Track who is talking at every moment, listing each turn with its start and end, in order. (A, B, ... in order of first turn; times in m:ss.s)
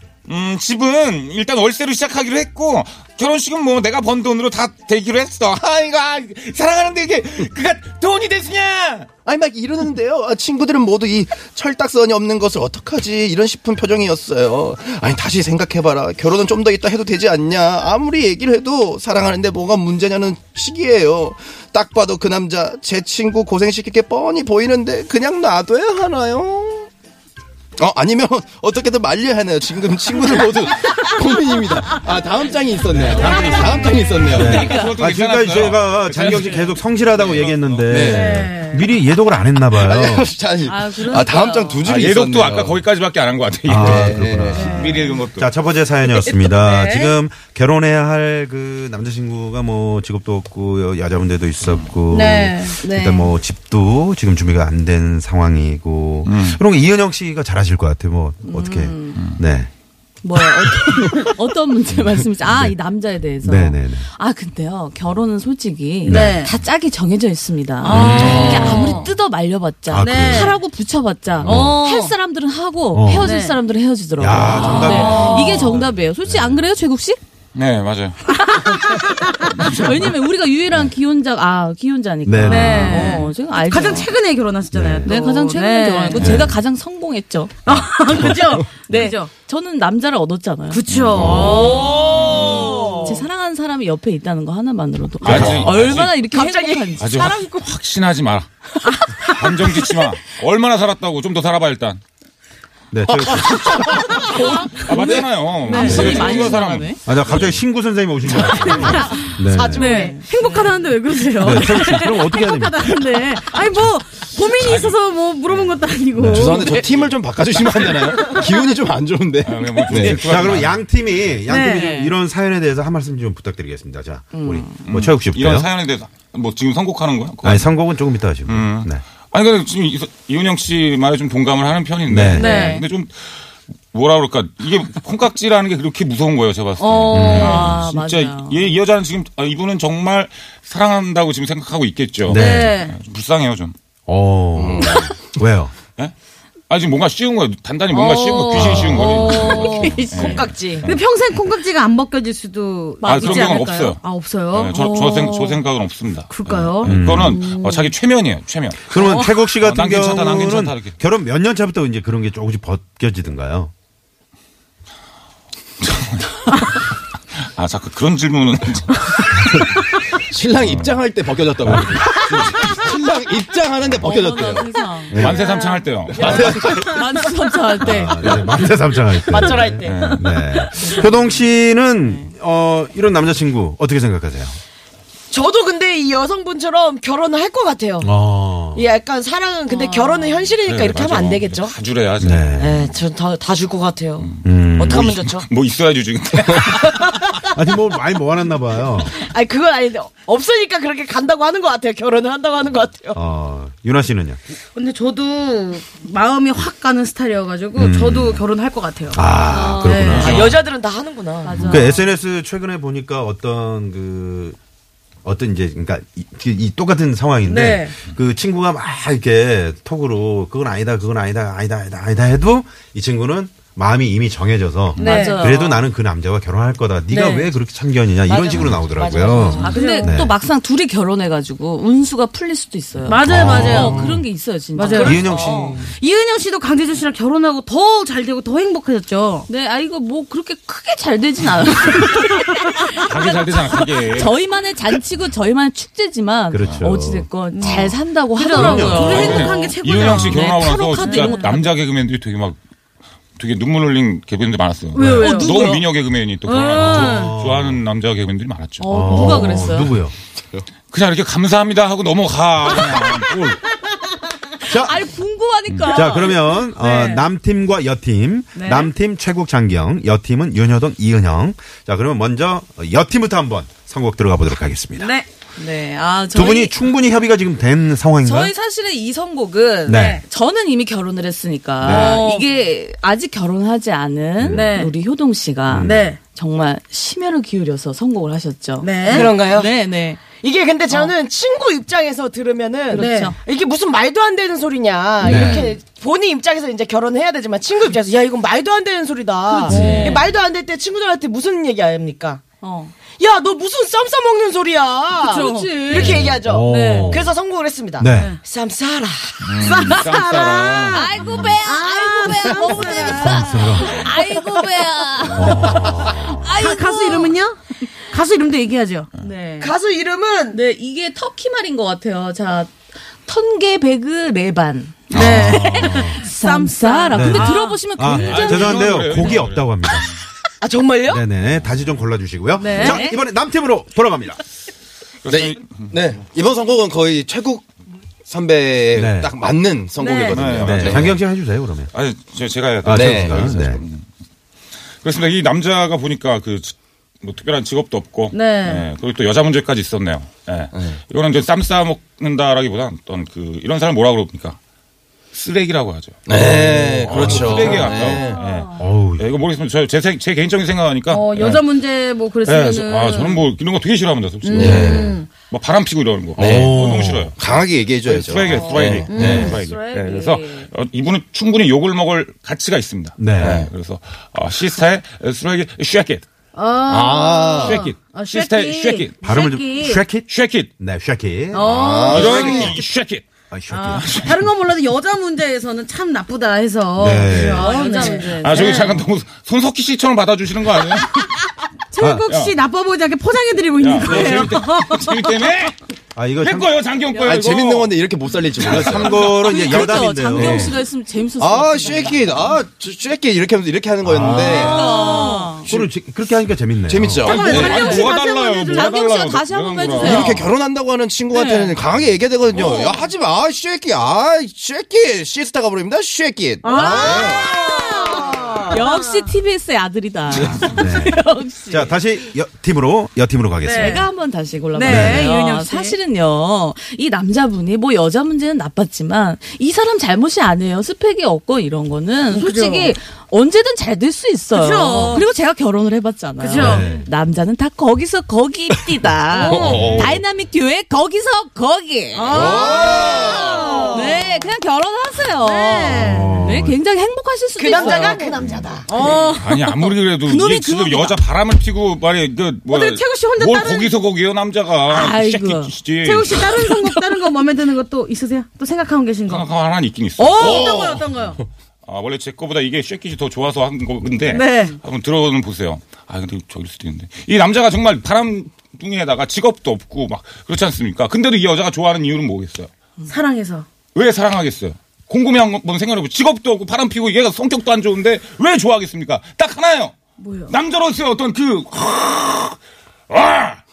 0:00.2-0:09.1 A
0:09.2-0:26.9 B
0:27.8-0:34.7 B
0:32.9-0:40.3 C
0:33.2-0:34.9 D
0:33.3-0:34.0 E
0:34.2-0:38.1 A
0:37.9-0:38.4 B
0:38.0-0:38.9 E
0:39.7-0:42.8 B
0:40.6-0:41.9 D
0:41.8-0:45.5 A
0:43.7-0:59.7 C
0:43.7-0:44.9 B
0:44.5-0:45.2 E
0:46.5-0:47.1 E
0:52.1-0:53.2 E
0:53.0-0:53.3 D
0:56.2-0:56.6 A
0:58.4-0:59.2 D
0:59.2-0:59.4 A
1:00.2-1:17.2 D
1:02.4-1:02.8 C
1:03.4-1:04.1 C
1:06.0-1:06.5 C
1:06.0-1:06.5 E
1:07.8-1:09.1 E
1:07.8-1:08.8 C
1:08.1-1:08.8 A
1:09.9-1:10.5 C
1:10.0-1:10.6 E
1:11.4-1:11.8 C
1:11.4-1:12.1 E
1:12.9-1:13.3 C
1:13.1-1:13.6 E
1:14.2-1:16.6 C
1:14.4-1:15.4 A
1:14.6-1:15.8 E
1:17.5-1:18.2 A
1:18.3-1:19.7 E
1:19.6-1:24.1 D
1:19.6-1:19.9 A
1:22.2-1:23.3 C
1:22.4-1:26.4 E
1:24.7-1:25.1 C
1:25.0-1:27.5 D
1:26.2-1:26.4 A
1:26.2-1:26.5 C
1:27.6-1:29.3 E
1:28.9-1:37.3 D
1:30.7-1:33.0 E
1:30.9-1:32.7 A
1:31.2-1:31.7 C
1:31.3-1:33.2 F
1:35.2-1:36.2 A
1:35.2-1:35.8 C
1:36.1-1:37.6 F
1:37.0-1:38.5 A
1:39.2-1:42.0 A
1:42.9-1:44.3 C
1:44.2-1:47.0 D
1:44.7-1:47.6 A
1:45.6-1:46.5 E
1:45.8-1:46.4 C
1:47.0-1:49.9 C
1:48.7-1:50.7 D
1:49.2-1:50.7 F
1:49.2-1:56.8 E
1:51.4-1:53.2 C
1:54.5-1:55.0 A
1:56.2-1:56.7 C
1:56.2-2:00.4 B
1:56.8-1:57.1 A
1:59.4-2:00.8 A
1:59.9-2:05.7 C
2:01.5-2:01.9 E
2:01.5-2:02.1 D
2:04.3-2:04.7 D
2:04.9-2:07.8 A
2:07.4-2:09.0 C
2:08.4-2:23.7 A
2:12.1-2:12.6 C
2:12.3-2:12.8 D
2:12.3-2:12.8 E
2:16.8-2:17.7 E
2:17.1-2:17.8 C
2:17.3-2:18.7 D
2:22.2-2:22.8 C
2:22.3-2:22.9 E
2:24.1-2:25.7 C
2:24.6-2:25.3 B
2:26.7-2:31.0 A
2:28.0-2:30.9 F
2:28.3-2:30.4 D
2:28.5-2:30.0 E
2:28.5-2:29.2 C
2:30.8-2:34.7 E
2:33.0-2:33.7 D
2:33.0-2:40.9 A
2:34.7-2:35.6 D
2:36.3-2:37.9 E
2:36.8-2:37.5 C
2:38.9-2:43.7 C
2:45.8-2:49.7 A
2:50.1-2:55.4 B
2:50.6-2:50.9 A
2:51.6-2:52.0 C
2:52.1-2:52.8 A
2:54.0-2:55.5 D
2:55.1-2:56.9 A
2:56.1-2:56.4 B
2:56.2-2:56.8 C
2:56.2-2:56.9 F
2:56.2-2:58.4 D
2:57.8-3:04.6 C
2:59.0-3:00.2 F
2:59.8-3:00.3 A
3:00.7-3:01.4 D
3:05.3-3:08.1 F
3:08.0-3:08.8 C
3:08.7-3:11.7 F
3:09.7-3:10.5 D
3:10.6-3:12.7 A
3:12.2-3:12.8 C
3:12.6-3:15.5 F
3:14.2-3:17.4 A
3:14.4-3:15.1 C
3:16.9-3:17.4 F
3:17.5-3:19.1 C
3:19.1-3:23.2 F
3:23.1-3:24.4 C
3:24.7-3:30.3 E
3:27.7-3:28.4 C
3:29.1-3:30.4 C
3:29.5-3:31.9 F
3:30.1-3:30.6 A
3:31.4-3:32.1 D
3:31.6-3:34.6 C
3:35.2-3:50.3 C
3:37.5-3:37.9 E
3:45.0-3:45.6 E
3:45.0-3:45.8 D
3:47.1-3:47.5 E
3:48.2-3:50.0 F
3:49.5-3:55.6 D
3:49.6-3:50.2 E
3:53.0-3:54.0 E
3:53.2-3:54.2 C
3:54.7-3:59.5 E
3:54.8-3:55.8 F
3:55.0-3:55.9 C
3:59.5-4:11.7 D
4:03.0-4:04.3 A
4:06.5-4:09.5 C
4:07.5-4:11.6 E
4:08.9-4:12.6 A
4:13.4-4:19.2 A
4:14.9-4:15.9 E
4:15.0-4:15.8 D
4:16.4-4:17.3 E
4:16.7-4:17.8 C
4:18.8-4:19.9 D
4:18.8-4:20.1 C
4:20.9-4:23.6 A
4:24.6-4:25.1 C
4:24.6-4:26.6 D
4:25.7-4:26.1 A
4:25.8-4:35.1 C
4:26.8-4:27.2 E
4:28.6-4:28.9 E
4:35.6-4:36.7 D
4:36.3-4:38.5 C
4:38.2-4:50.2 D
4:39.8-4:40.2 C
4:39.9-4:40.2 E
4:41.8-4:42.2 C
4:41.9-4:42.5 E
4:44.4-4:44.7 C
4:44.5-4:44.9 E
4:45.7-4:46.2 C
4:45.8-4:46.2 E
4:48.8-4:49.3 E
4:49.0-4:49.7 F
4:50.3-5:02.4 F
4:52.9-4:53.4 D
4:52.9-4:53.3 E
4:55.2-4:55.7 C
4:55.2-4:55.7 D
4:59.6-5:00.2 D
4:59.7-5:00.0 C
4:59.7-5:00.2 E
5:02.6-5:02.9 D
5:03.2-5:11.0 F
5:05.2-5:06.1 E
5:05.3-5:06.3 D
5:05.9-5:07.3 C
5:06.6-5:07.2 E
5:08.0-5:08.3 C
5:08.1-5:08.4 E
5:09.4-5:11.1 A
5:09.7-5:11.0 E
5:10.9-5:17.4 D
5:11.6-5:14.1 E
5:12.3-5:13.2 F
5:13.1-5:14.0 C
5:15.3-5:16.6 C
5:15.4-5:15.8 E
5:16.4-5:19.7 E
5:19.6-5:20.6 F
5:20.5-5:22.7 D
5:23.2-5:29.1 D
5:25.1-5:25.7 A
5:25.1-5:26.2 C
5:25.1-5:27.8 E
5:27.1-5:30.1 C
5:28.2-5:30.1 A
5:30.6-5:31.2 F
5:31.1-5:34.4 C
5:32.6-5:33.1 E
5:32.7-5:33.2 D
5:35.2-5:35.9 A
5:35.3-5:37.7 B
5:38.3-5:41.2 B
5:38.9-5:39.3 C
5:40.0-5:40.3 E
5:40.3-5:41.2 A
5:40.5-5:41.9 C
5:41.9-5:44.0 A
5:42.8-5:43.8 C
5:42.9-5:43.6 B
5:45.0-5:54.6 A
5:48.3-5:48.8 E
5:50.7-5:51.0 B
5:55.3-6:01.6 A
5:56.2-5:58.4 B
5:56.3-5:58.1 C
5:58.3-5:58.8 D
5:58.8-5:59.2 C
6:01.1-6:03.4 E
6:02.4-6:16.2 A
6:04.4-6:05.3 E
6:04.5-6:05.1 B
6:04.6-6:05.1 C
6:06.4-6:07.3 C
6:06.4-6:09.5 B
6:08.5-6:10.7 D
6:09.1-6:09.5 E
6:09.1-6:09.6 C
6:13.2-6:13.7 C
6:13.4-6:13.7 B
6:16.5-6:20.0 E
6:16.9-6:17.9 B
6:17.6-6:19.2 A
6:19.2-6:21.6 C
6:20.2-6:20.7 A
6:21.5-6:22.7 E
6:21.6-6:22.8 B
6:22.1-6:23.2 A
6:22.2-6:22.8 C
6:23.5-6:24.1 C
6:23.7-6:29.0 E
6:23.9-6:24.4 A
6:27.0-6:27.7 C
6:27.3-6:29.0 D
6:28.2-6:31.3 A
6:31.0-6:31.3 E
6:31.9-6:35.5 E
6:32.0-6:32.3 C
6:32.3-6:32.6 A
6:33.8-6:35.8 A
6:34.1-6:34.4 C
6:36.2-6:36.7 C
6:36.4-6:37.9 A
6:37.2-6:40.8 B
6:38.6-6:39.6 A
6:38.6-6:40.8 C
6:39.2-6:42.5 D
6:41.4-6:45.1 B
6:44.0-6:44.8 C
6:44.2-6:45.6 D
6:44.5-6:45.6 E
6:45.6-6:45.9 B
6:45.6-6:47.3 C
6:46.9-6:47.9 B
6:47.2-6:48.9 E
6:47.2-6:50.4 A
6:47.3-6:50.4 D
6:50.0-6:57.5 B
6:51.3-6:51.7 D
6:52.6-6:53.0 E
6:56.6-6:59.3 E
6:56.6-7:02.0 D
7:00.4-7:00.7 B
7:00.6-7:04.0 C
7:03.6-7:04.1 E
7:03.6-7:28.4 D
7:04.7-7:06.0 E
7:04.8-7:05.3 C
7:12.3-7:12.9 E
7:14.5-7:15.3 E
7:16.4-7:16.9 E
7:16.5-7:17.1 C
7:19.3-7:19.9 E
7:19.5-7:20.2 B
7:19.6-7:20.1 C
7:22.2-7:24.3 E
7:22.3-7:23.7 B
7:25.4-7:26.5 E
7:25.8-7:26.8 C
7:27.6-7:28.9 F
7:27.7-7:28.2 E
7:28.9-7:29.5 E
7:29.0-7:29.2 D
7:29.4-7:37.0 A
7:30.2-7:31.2 D
7:32.7-7:33.9 E
7:34.9-7:35.7 D
7:36.0-7:39.4 E
7:39.3-7:40.8 A
7:40.2-7:41.4 E
7:40.4-7:41.4 B
7:41.8-7:52.7 A
7:44.3-7:44.8 E
7:53.1-7:53.6 E
7:53.9-7:59.9 A
8:00.2-8:00.5 E
8:00.5-8:02.6 A
8:03.1-8:03.6 A